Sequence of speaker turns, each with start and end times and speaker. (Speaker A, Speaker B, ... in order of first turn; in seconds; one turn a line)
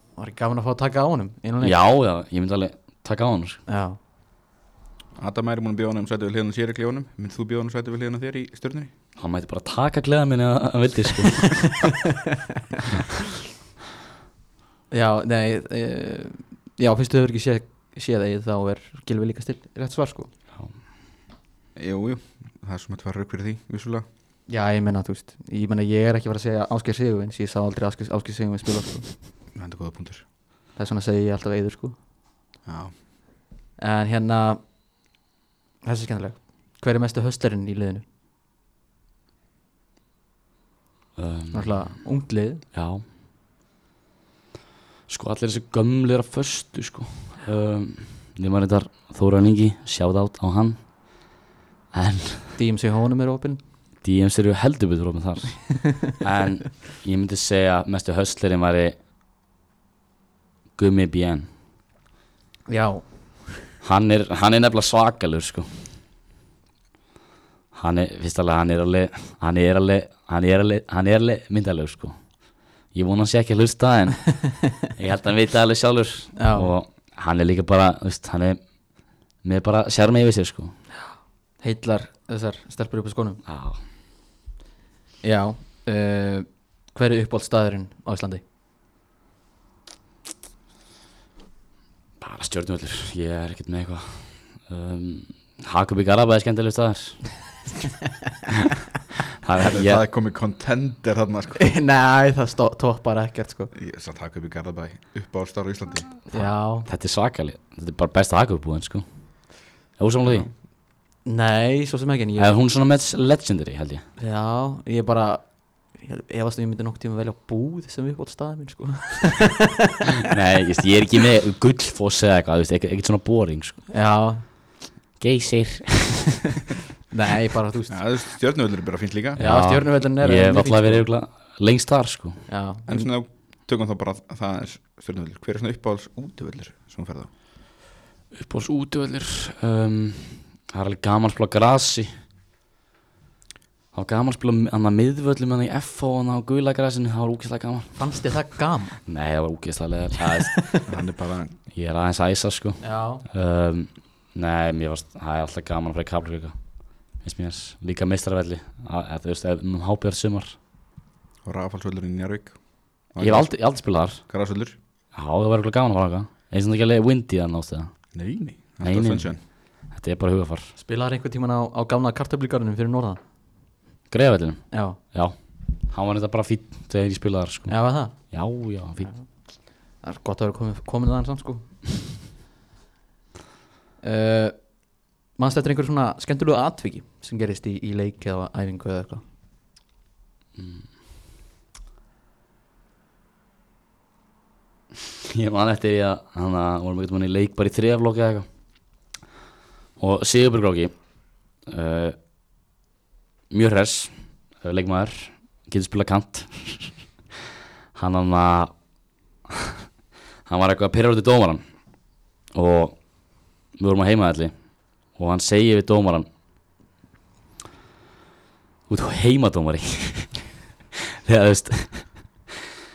Speaker A: 0.2-1.8
Speaker B: 1.6-3.6
Speaker A: 3.7-4.0
Speaker C: 5.2-8.9
Speaker B: 9.2-11.8
Speaker A: 14.9-20.3
Speaker C: 21.8-24.1
Speaker A: 24.5-29.1
Speaker C: 29.6-30.2
Speaker A: 30.8-32.0
Speaker C: 32.6-32.9
Speaker A: 33.8-34.6
Speaker A: 35.8-38.0
Speaker B: 41.2-42.1
Speaker A: 41.5-42.6
Speaker B: 42.7-43.0
Speaker B: 45.1-50.8
Speaker B: 51.9-52.6
Speaker A: 52.6-53.6
Speaker B: 54.0-59.0
Speaker B: 60.8-61.5
Speaker A: 62.7-63.0
Speaker B: 63.8-65.7
Speaker B: 67.7-72.3
Speaker B: 72.9-78.6
Speaker A: 76.4-76.7
Speaker B: 79.4-80.8
Speaker A: 81.6-83.4
Speaker B: 83.5-83.8
Speaker A: 85.2-88.4
Speaker B: 92.2-97.3
Speaker B: 99.4-100.0
Speaker C: 99.6-101.7
Speaker A: 101.6-103.7
Speaker C: 103.7-106.2
Speaker A: 106.3-106.9
Speaker B: 106.3-109.0
Speaker B: 110.0-110.5
Speaker C: 110.2-110.5
Speaker A: 111.2-112.6
Speaker B: 112.4-114.0
Speaker A: 114.2-120.0
Speaker B: 120.3-123.8
Speaker A: 123.9-124.4
Speaker B: 125.2-126.5
Speaker A: 127.1-128.0
Speaker C: 127.9-129.4
Speaker B: 129.4-132.4
Speaker A: 129.4-131.1
Speaker A: 132.5-133.1
Speaker C: 132.9-137.3
Speaker B: 138.3-142.2
Speaker B: 143.9-148.1
Speaker A: 148.0-149.0
Speaker B: 149.1-150.7
Speaker A: 150.5-150.8
Speaker C: 150.9-151.6
Speaker B: 151.7-156.6
Speaker A: 152.8-153.2
Speaker B: 157.2-160.6
Speaker C: 161.4-162.6
Speaker C: 163.1-163.5
Speaker B: 163.2-164.2
Speaker C: 164.3-164.8
Speaker B: 165.1-167.9
Speaker C: 168.1-169.4
Speaker B: 168.8-169.4
Speaker B: 169.9-170.7
Speaker A: 170.8-173.2
Speaker B: 174.1-175.3
Speaker A: 174.7-175.0
Speaker B: 175.9-179.1
Speaker A: 177.7-178.2
Speaker A: 180.0-181.7
Speaker A: 184.0-184.8
Speaker A: 185.3-189.2
Speaker B: 190.6-190.8
Speaker B: 195.2-198.5
Speaker B: 200.0-200.9
Speaker B: 201.7-202.2
Speaker B: 203.5-207.0
Speaker B: 207.9-208.7
Speaker B: 209.5-209.8
Speaker B: 210.5-211.6
Speaker B: 212.5-213.0
Speaker B: 213.8-214.5
Speaker B: 215.1-216.3
Speaker B: 218.9-220.5
Speaker B: 221.1-222.5